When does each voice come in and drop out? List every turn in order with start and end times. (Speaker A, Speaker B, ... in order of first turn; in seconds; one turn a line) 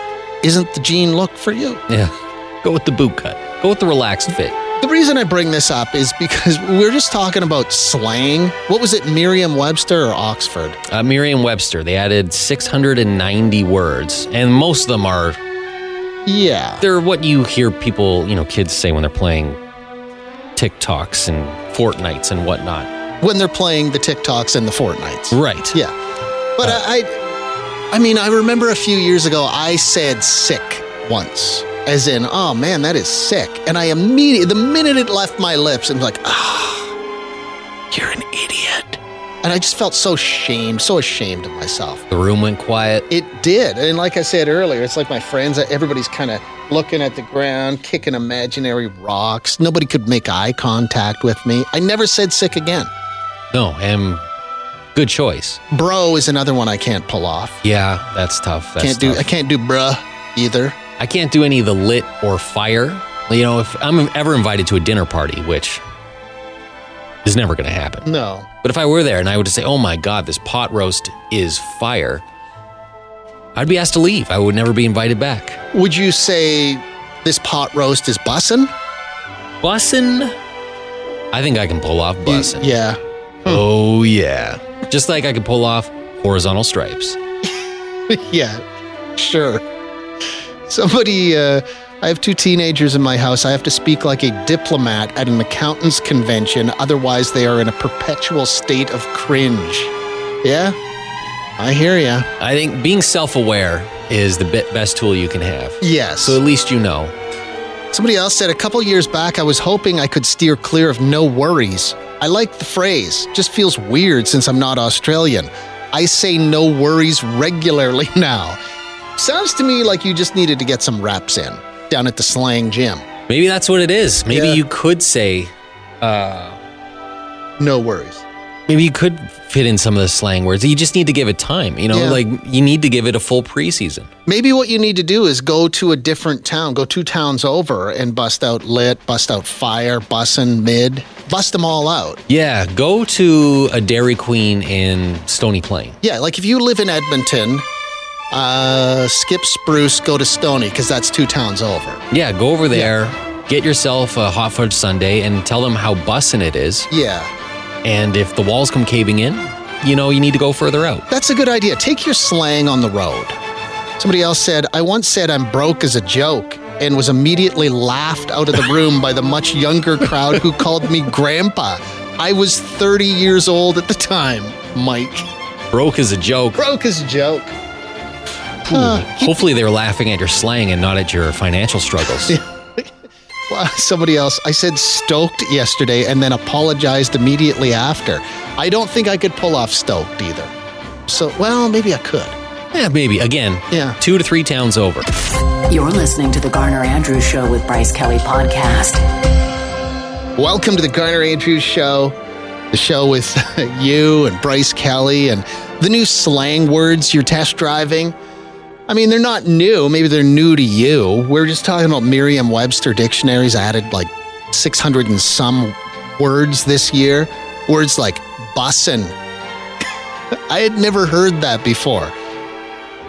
Speaker A: 0.4-1.8
Speaker B: 1.9-4.5
Speaker A: 4.8-10.8
Speaker B: 10.9-15.4
Speaker A: 16.2-16.8
Speaker B: 16.8-19.6
Speaker B: 20.6-22.9
Speaker A: 23.2-25.9
Speaker B: 25.3-25.8
Speaker A: 26.6-27.2
Speaker A: 27.9-36.9
Speaker A: 37.9-42.0
Speaker B: 42.1-43.0
Speaker A: 43.1-52.9
Speaker B: 53.5-54.2
Speaker B: 54.9-55.6
Speaker A: 55.7-57.6
Speaker B: 57.6-59.3
Speaker A: 58.8-60.8
Speaker B: 61.0-65.8
Speaker B: 67.2-68.1
Speaker A: 68.0-68.5
Speaker B: 68.6-72.2
Speaker B: 73.5-75.6
Speaker A: 75.7-78.7
Speaker B: 79.6-80.3
Speaker B: 81.3-82.7
Speaker A: 82.2-83.6
Speaker B: 83.5-87.2
Speaker A: 88.1-88.6
Speaker A: 89.2-89.6
Speaker A: 90.7-99.9
Speaker A: 100.4-100.8
Speaker A: 101.6-102.3
Speaker B: 102.4-107.1
Speaker A: 105.8-106.4
Speaker A: 107.9-118.6
Speaker A: 119.2-123.0
Speaker B: 123.3-125.5
Speaker A: 124.3-124.6
Speaker B: 126.0-126.6
Speaker A: 127.6-128.2
Speaker B: 128.7-134.1
Speaker A: 131.9-132.2
Speaker A: 134.2-142.2
Speaker B: 142.3-146.0
Speaker A: 146.0-147.6
Speaker A: 148.3-152.0
Speaker B: 152.1-156.9
Speaker A: 156.9-157.3
Speaker B: 157.8-161.0
Speaker A: 161.1-163.3
Speaker A: 164.0-175.2
Speaker B: 175.7-176.6
Speaker A: 176.6-177.5
Speaker A: 178.7-179.4
Speaker B: 178.7-182.3
Speaker A: 182.2-182.9
Speaker A: 183.5-190.5
Speaker A: 191.1-192.3
Speaker B: 192.7-195.1
Speaker A: 193.7-194.0
Speaker C: 195.7-198.9
Speaker A: 200.4-202.2
Speaker A: 202.7-208.2
Speaker A: 208.9-219.1
Speaker A: 220.5-222.1